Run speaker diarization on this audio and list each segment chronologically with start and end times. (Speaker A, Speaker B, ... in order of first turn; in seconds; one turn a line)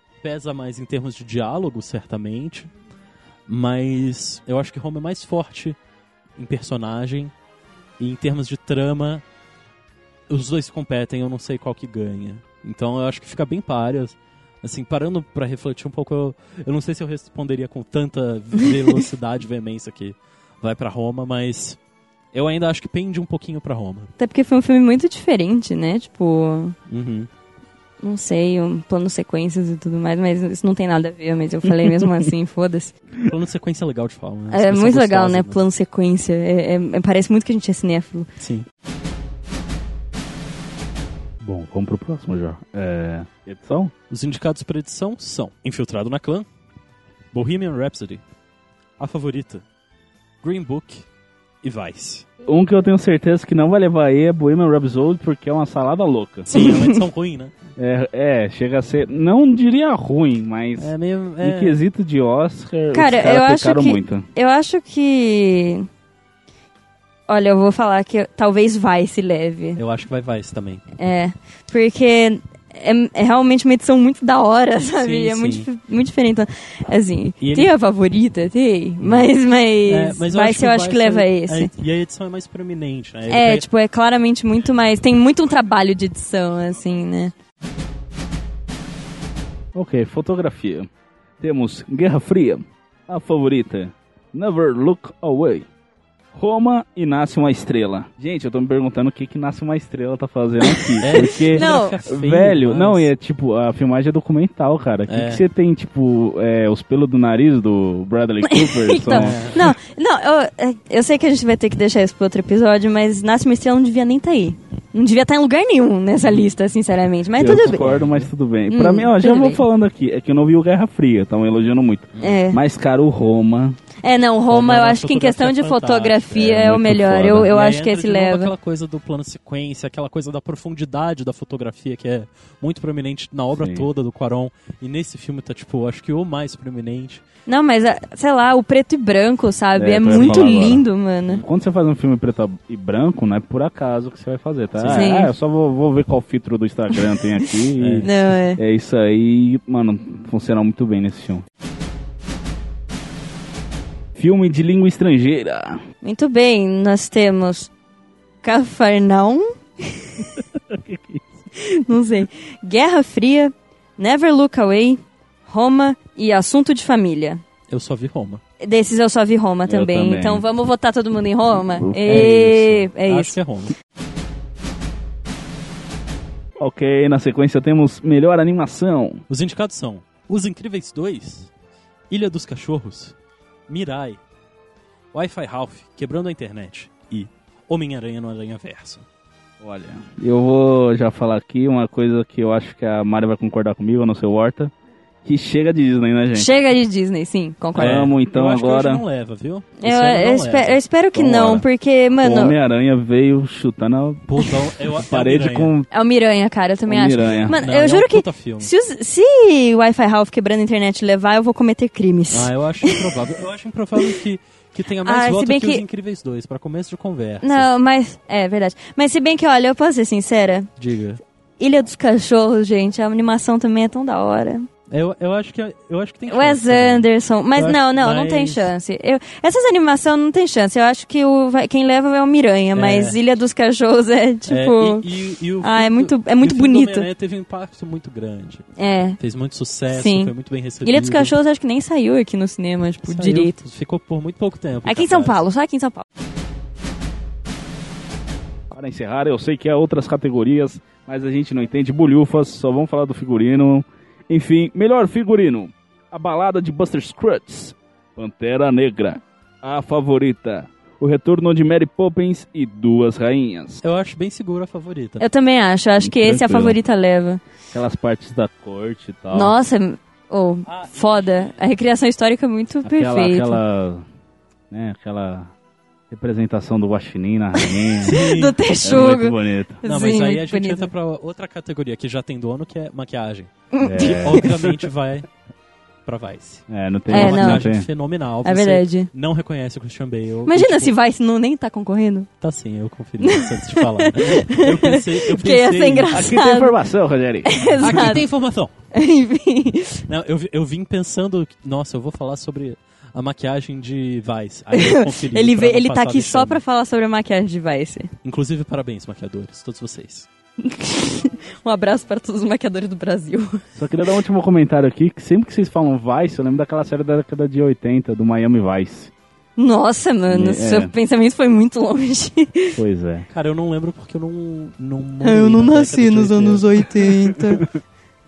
Speaker A: 0.2-2.7
Speaker A: 3.5-5.8
Speaker A: 6.4-7.3
Speaker A: 8.0-9.2
Speaker A: 10.3-21.8
Speaker A: 22.3-24.1
Speaker B: 24.2-26.8
Speaker A: 26.9-27.3
Speaker B: 28.0-32.9
Speaker A: 33.2-35.6
Speaker B: 34.5-38.3
Speaker A: 38.4-38.6
Speaker C: 41.4-43.9
Speaker A: 44.1-46.5
Speaker A: 47.3-48.2
Speaker A: 49.0-49.6
Speaker A: 50.4-51.0
Speaker A: 51.6-52.2
Speaker C: 52.5-56.5
Speaker A: 56.5-57.5
Speaker B: 56.5-57.0
Speaker C: 57.8-64.2
Speaker A: 60.8-61.8
Speaker B: 62.9-65.9
Speaker B: 67.3-69.8
Speaker A: 69.8-70.8
Speaker B: 71.0-81.7
Speaker A: 74.9-75.7
Speaker A: 77.4-77.7
Speaker A: 79.0-79.3
Speaker A: 79.9-83.6
Speaker B: 83.3-87.3
Speaker C: 89.7-90.9
Speaker C: 91.4-95.7
Speaker C: 96.3-109.6
Speaker B: 100.6-102.0
Speaker A: 101.0-103.1
Speaker A: 105.1-105.4
Speaker B: 108.4-117.9
Speaker A: 109.1-109.6
Speaker C: 117.4-123.8
Speaker A: 117.4-118.3
Speaker B: 118.7-119.6
Speaker A: 122.1-122.4
Speaker B: 122.2-122.6
Speaker B: 124.0-128.5
Speaker A: 124.5-137.2
Speaker C: 126.3-127.5
Speaker C: 133.6-133.9
Speaker B: 137.4-141.4
Speaker C: 139.8-151.4
Speaker A: 140.1-140.6
Speaker A: 144.8-145.2
Speaker B: 144.9-145.3
Speaker A: 147.8-148.1
Speaker B: 148.0-148.6
Speaker C: 154.1-155.8
Speaker B: 156.0-157.7
Speaker B: 158.4-160.4
Speaker C: 160.5-161.4
Speaker B: 161.5-167.4
Speaker A: 167.7-168.4
Speaker B: 168.6-173.3
Speaker C: 169.7-170.4
Speaker C: 171.7-172.3
Speaker A: 172.0-173.7
Speaker C: 176.6-179.2
Speaker A: 179.3-181.5
Speaker A: 182.1-183.1
Speaker A: 183.7-184.2
Speaker A: 185.1-189.0
Speaker C: 189.6-194.7
Speaker C: 195.2-196.5
Speaker B: 196.3-198.1
Speaker C: 197.8-199.0
Speaker A: 197.8-200.8
Speaker B: 199.8-202.6
Speaker C: 201.1-201.6
Speaker C: 202.2-205.9
Speaker A: 204.3-205.7
Speaker B: 205.9-213.3
Speaker C: 206.9-207.6
Speaker A: 207.2-208.7
Speaker A: 212.3-217.7
Speaker B: 215.0-215.8
Speaker B: 217.4-220.7
Speaker A: 220.8-221.2
Speaker B: 221.6-224.7
Speaker A: 224.9-228.7
Speaker B: 226.3-237.1
Speaker A: 232.7-233.2
Speaker A: 234.5-238.6
Speaker B: 238.8-239.2
Speaker A: 239.2-241.3
Speaker B: 239.9-240.3
Speaker B: 240.8-243.6
Speaker A: 243.0-245.4
Speaker B: 244.8-246.0
Speaker C: 248.7-263.8
Speaker A: 263.8-265.2
Speaker B: 265.2-267.4
Speaker C: 266.0-266.8
Speaker C: 267.7-269.5
Speaker B: 269.3-273.6
Speaker A: 270.7-271.5
Speaker C: 272.8-274.0
Speaker C: 274.7-275.5
Speaker C: 276.1-278.2
Speaker B: 277.6-280.9
Speaker A: 278.0-278.6
Speaker C: 278.8-279.8
Speaker A: 279.8-285.3
Speaker B: 283.7-284.4
Speaker C: 283.8-284.8
Speaker A: 286.1-290.9
Speaker C: 286.7-287.9
Speaker B: 287.1-287.6
Speaker B: 288.4-289.1
Speaker B: 290.4-292.3
Speaker A: 292.4-296.2
Speaker B: 293.2-296.7
Speaker C: 296.1-298.2
Speaker B: 297.4-298.2
Speaker A: 297.8-298.7
Speaker B: 298.9-300.0
Speaker A: 300.1-306.6
Speaker B: 304.7-308.1
Speaker A: 308.2-310.3
Speaker B: 310.6-313.6
Speaker C: 313.8-319.1
Speaker B: 319.6-322.8
Speaker C: 320.3-320.9
Speaker C: 322.8-323.3
Speaker A: 323.3-327.0
Speaker B: 325.2-327.7